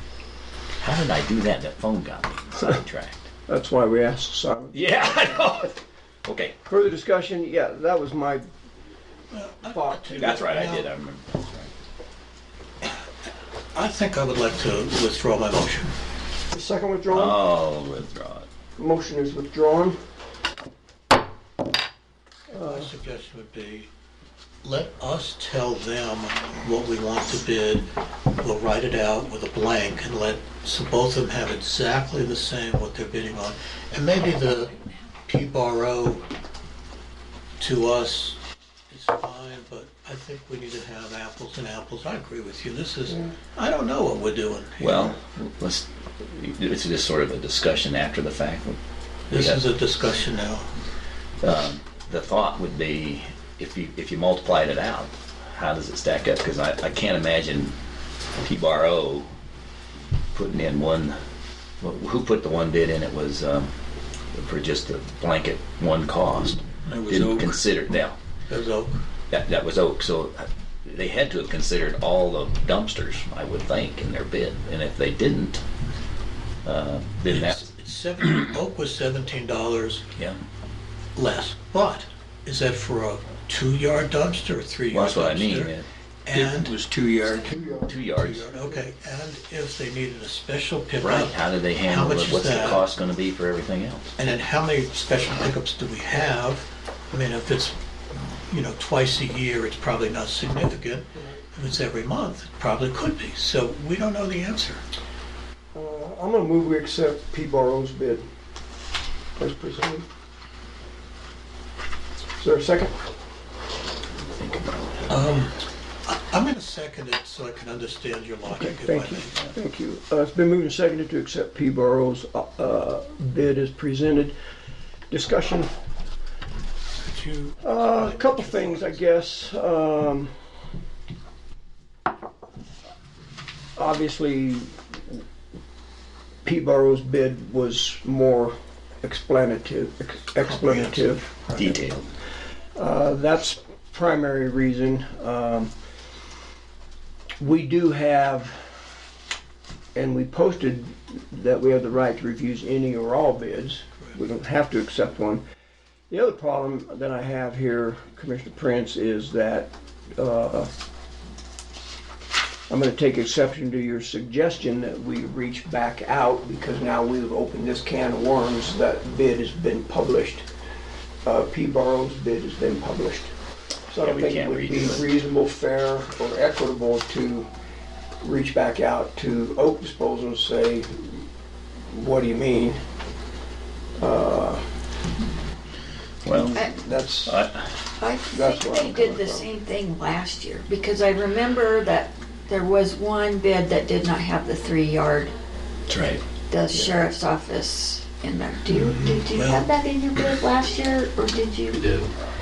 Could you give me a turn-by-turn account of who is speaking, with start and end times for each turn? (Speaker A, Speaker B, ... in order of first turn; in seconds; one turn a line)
Speaker A: 0.8-3.3
Speaker B: 3.5-4.9
Speaker A: 4.7-6.6
Speaker B: 6.7-8.5
Speaker C: 9.3-10.9
Speaker B: 9.7-10.4
Speaker A: 10.2-11.7
Speaker C: 13.7-15.9
Speaker B: 16.5-17.4
Speaker A: 17.1-18.5
Speaker B: 18.8-20.0
Speaker B: 22.5-22.9
Speaker C: 22.6-23.9
Speaker C: 24.6-36.2
Speaker C: 37.6-38.4
Speaker C: 38.9-45.2
Speaker A: 44.8-48.8
Speaker C: 49.3-50.7
Speaker A: 49.3-49.6
Speaker A: 51.4-57.8
Speaker A: 58.4-59.3
Speaker A: 60.3-61.2
Speaker A: 61.8-63.7
Speaker A: 64.3-68.2
Speaker C: 66.9-67.6
Speaker C: 68.5-69.0
Speaker A: 69.3-75.6
Speaker A: 76.6-77.6
Speaker C: 77.3-80.1
Speaker C: 81.2-85.7
Speaker A: 84.9-85.9
Speaker C: 86.3-86.8
Speaker B: 86.4-88.0
Speaker A: 87.8-88.5
Speaker C: 88.1-92.8
Speaker A: 91.0-94.1
Speaker C: 94.2-97.8
Speaker C: 98.4-104.8
Speaker B: 105.7-108.3
Speaker B: 109.4-110.1
Speaker B: 112.4-113.0
Speaker A: 114.2-115.2
Speaker C: 115.1-119.4
Speaker B: 118.5-124.4
Speaker B: 125.1-125.7
Speaker C: 127.0-129.0
Speaker B: 127.6-130.3
Speaker B: 133.8-135.2
Speaker B: 136.4-141.4
Speaker C: 140.4-141.7
Speaker A: 141.6-142.1
Speaker B: 142.8-145.7
Speaker B: 147.4-148.7
Speaker B: 149.9-155.4
Speaker B: 156.1-160.7
Speaker B: 162.7-170.5
Speaker B: 171.2-173.3
Speaker B: 173.9-177.5
Speaker A: 174.0-175.1
Speaker B: 178.2-181.2
Speaker B: 181.9-182.8
Speaker B: 184.0-184.7
Speaker A: 186.2-186.7
Speaker B: 186.3-187.4
Speaker A: 187.2-187.8
Speaker D: 188.0-195.3
Speaker B: 188.3-189.5
Speaker A: 195.9-196.2
Speaker D: 196.5-201.8
Speaker B: 196.7-197.0
Speaker C: 198.7-199.7